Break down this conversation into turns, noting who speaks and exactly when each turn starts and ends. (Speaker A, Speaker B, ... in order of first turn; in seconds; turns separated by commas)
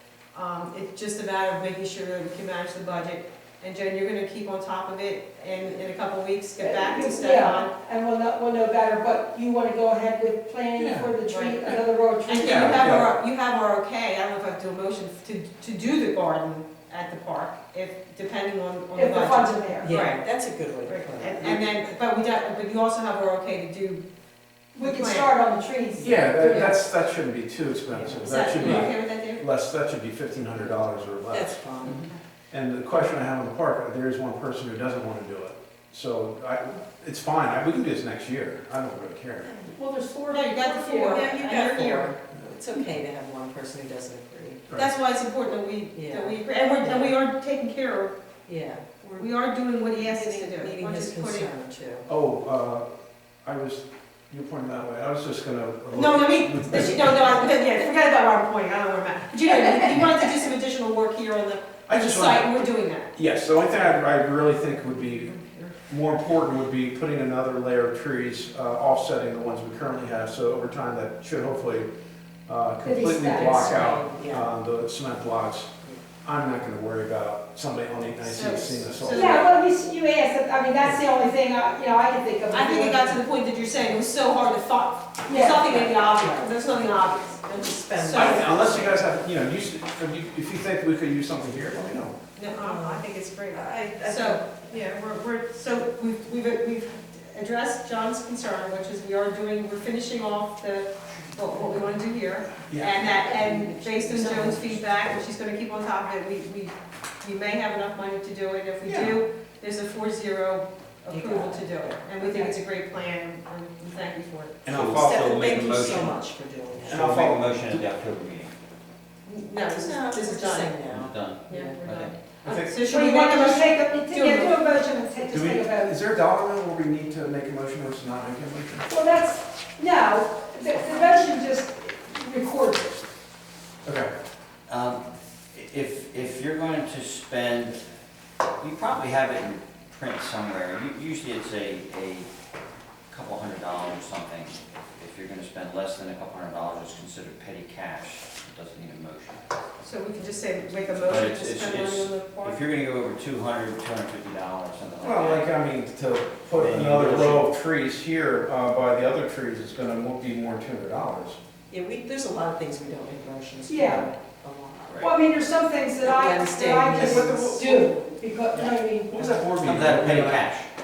Speaker A: 0.3-7.7, Speaker B: 6.6-12.9, Speaker C: 10.8-11.1, Speaker A: 11.3-20.2, Speaker C: 12.4-13.1, Speaker B: 18.9-19.9, Speaker D: 19.8-21.6, Speaker A: 20.8-24.0, Speaker B: 24.7-26.7, Speaker A: 24.8-25.3, Speaker C: 26.0-39.5, Speaker D: 26.4-26.7, Speaker D: 27.9-28.9, Speaker A: 28.2-29.5, Speaker D: 31.3-32.0, Speaker D: 39.5-39.7, Speaker B: 39.7-41.3, Speaker A: 40.3-42.1, Speaker D: 41.1-44.7, Speaker A: 44.7-48.1, Speaker D: 45.9-47.1, Speaker D: 48.5-49.3, Speaker A: 49.1-51.5, Speaker D: 49.9-52.1, Speaker C: 52.1-52.8, Speaker C: 53.4-57.3, Speaker A: 55.9-63.1, Speaker B: 59.4-59.7, Speaker C: 61.9-62.5, Speaker C: 63.1-65.3, Speaker A: 65.2-65.8, Speaker C: 65.9-71.9, Speaker C: 72.5-75.7, Speaker B: 72.8-73.8, Speaker D: 73.3-74.5, Speaker C: 76.2-79.4, Speaker A: 78.2-79.5, Speaker B: 79.1-83.2, Speaker A: 82.5-88.6, Speaker B: 85.3-85.7, Speaker D: 85.6-89.1, Speaker C: 88.1-92.1, Speaker A: 92.3-114.6, Speaker D: 92.5-94.7, Speaker D: 101.5-102.0, Speaker C: 102.7-103.0, Speaker D: 102.9-104.8, Speaker C: 108.8-109.2, Speaker D: 111.1-112.0, Speaker B: 112.2-112.5, Speaker C: 114.6-115.2, Speaker E: 114.7-116.2, Speaker D: 114.7-117.0, Speaker C: 116.9-117.8, Speaker E: 116.9-118.5, Speaker A: 119.2-120.7, Speaker D: 119.7-121.8, Speaker E: 120.9-122.1, Speaker A: 121.5-124.6, Speaker C: 122.4-122.7, Speaker B: 122.8-125.9, Speaker C: 125.3-128.9, Speaker B: 128.9-133.0, Speaker C: 133.8-134.1, Speaker E: 134.7-137.8, Speaker E: 138.6-142.3, Speaker E: 143.1-149.4, Speaker A: 149.8-152.6, Speaker E: 151.0-155.5, Speaker C: 155.0-161.4, Speaker E: 156.5-157.5, Speaker D: 161.7-165.0, Speaker B: 163.7-164.1, Speaker E: 164.9-165.1, Speaker B: 165.0-169.2, Speaker D: 166.0-168.0, Speaker C: 166.9-167.8, Speaker D: 168.5-169.6, Speaker C: 169.1-170.4, Speaker E: 169.6-170.7